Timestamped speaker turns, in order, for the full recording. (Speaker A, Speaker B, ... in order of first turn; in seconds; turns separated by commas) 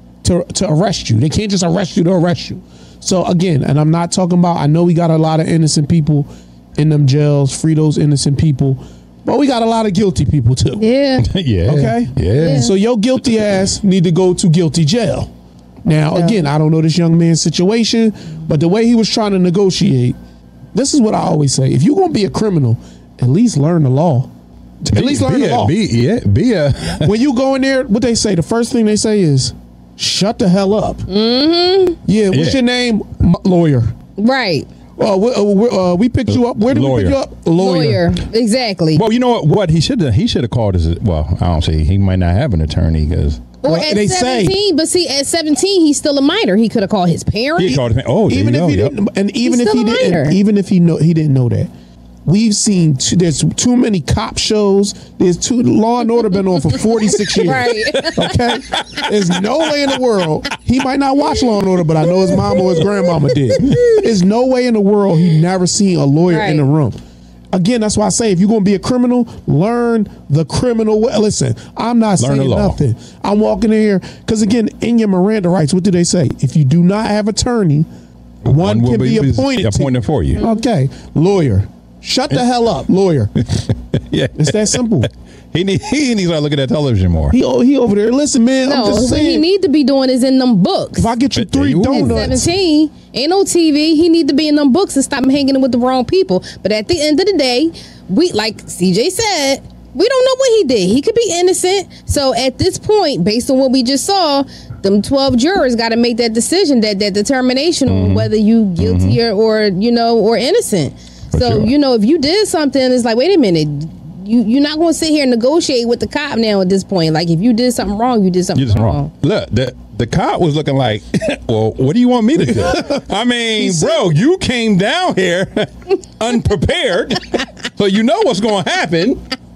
Speaker A: 0.2-10.8, Speaker B: 10.8-11.3, Speaker C: 11.2-12.7, Speaker A: 11.7-15.3, Speaker B: 12.4-12.7, Speaker A: 15.8-20.2, Speaker B: 16.1-16.4, Speaker A: 20.7-24.3, Speaker A: 24.8-25.8, Speaker C: 24.9-27.1, Speaker A: 27.0-31.1, Speaker B: 31.1-32.0, Speaker A: 32.1-33.9, Speaker C: 32.3-32.6, Speaker B: 34.2-34.7, Speaker A: 35.0-38.1, Speaker C: 36.3-37.2, Speaker B: 37.6-39.0, Speaker C: 38.9-43.4, Speaker B: 43.6-47.8, Speaker A: 43.6-44.6, Speaker C: 47.6-49.0, Speaker A: 47.7-51.7, Speaker B: 49.4-50.4, Speaker A: 52.2-67.0, Speaker B: 57.4-58.3, Speaker C: 58.0-59.4, Speaker C: 62.5-63.0, Speaker C: 63.6-63.9, Speaker B: 66.3-66.6, Speaker A: 67.5-77.9, Speaker C: 72.2-72.8, Speaker C: 78.4-80.4, Speaker A: 78.5-83.3, Speaker B: 80.4-80.6, Speaker C: 83.6-87.4, Speaker A: 84.3-85.1, Speaker A: 87.3-89.5, Speaker B: 88.7-91.1, Speaker A: 91.0-92.5, Speaker C: 91.3-92.5, Speaker B: 92.1-119.1, Speaker C: 107.9-109.2, Speaker C: 111.3-111.7, Speaker C: 118.6-129.2, Speaker A: 122.4-123.0, Speaker A: 123.6-124.0